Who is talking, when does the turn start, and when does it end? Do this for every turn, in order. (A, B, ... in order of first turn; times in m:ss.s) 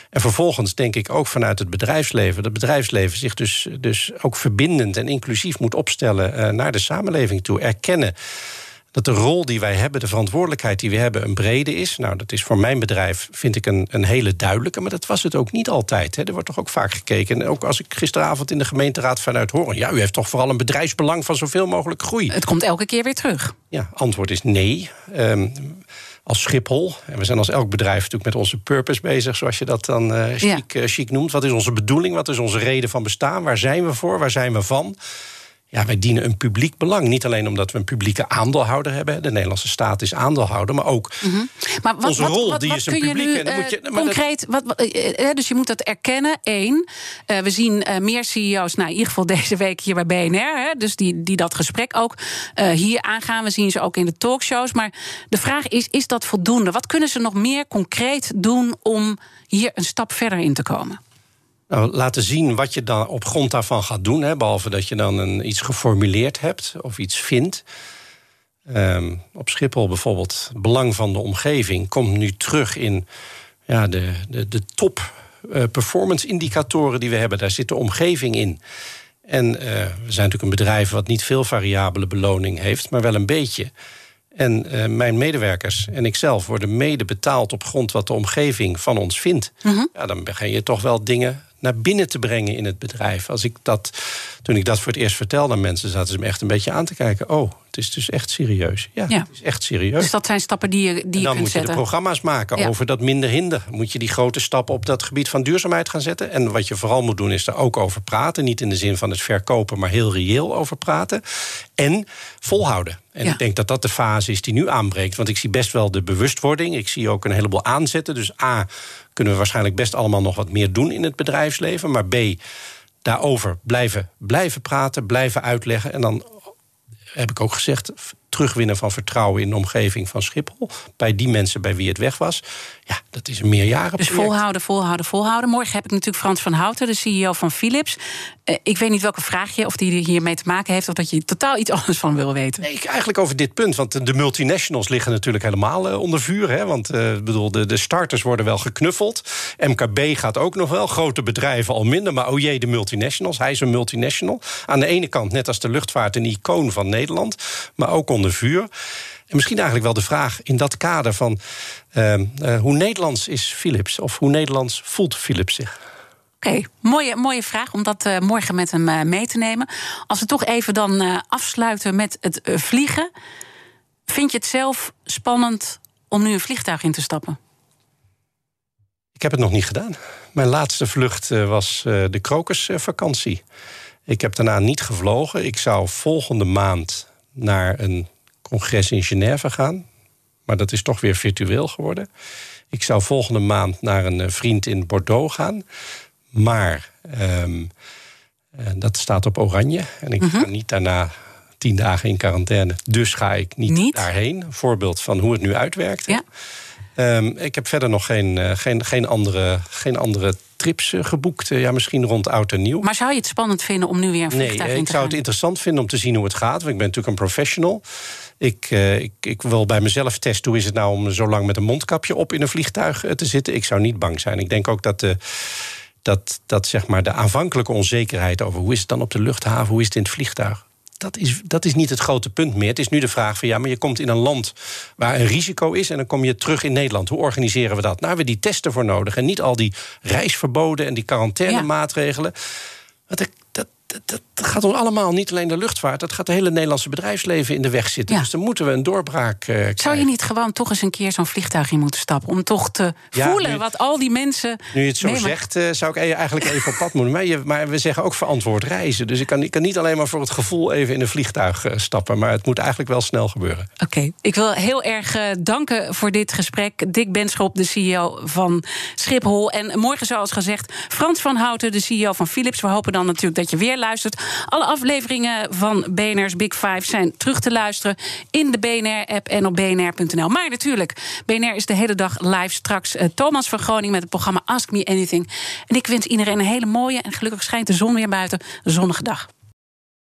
0:00.1-0:08.1 A
0:08.9-0:22.3 A
0:22.3-0:23.5 B
0:23.7-0:35.0 A
0:35.7-0:41.2 A
0:41.2-1:01.0 B
0:42.0-0:44.2 A
1:01.7-1:07.6 A
1:08.7-1:13.0 A
1:13.7-1:18.6 A
1:19.3-1:23.7 A
1:24.3-1:40.1 A
1:29.6-1:29.9 B
1:40.0-1:41.8 B
1:41.2-1:51.2 A
1:51.8-2:02.4 A
2:03.0-2:06.4 A
2:07.1-2:14.4 A
2:14.0-2:22.6 B
2:22.6-2:38.7 A
2:39.3-2:41.4 A
2:41.9-2:45.8 A
2:46.4-2:53.1 B
2:54.1-2:57.4 B
2:59.2-3:03.4 A
3:04.1-3:09.8 A
3:10.5-3:12.1 A
3:12.7-3:15.6 A
3:16.3-3:17.7 A
3:18.5-3:26.2 A
3:20.2-3:20.5 B
3:23.7-3:24.0 B
3:27.0-3:32.8 A
3:32.8-3:35.2 B
3:34.3-3:37.8 A
3:38.4-4:02.3 A
4:03.1-4:10.1 A
4:09.8-4:15.4 B
4:13.1-4:13.6 A
4:14.7-4:23.7 A
4:23.8-4:49.3 B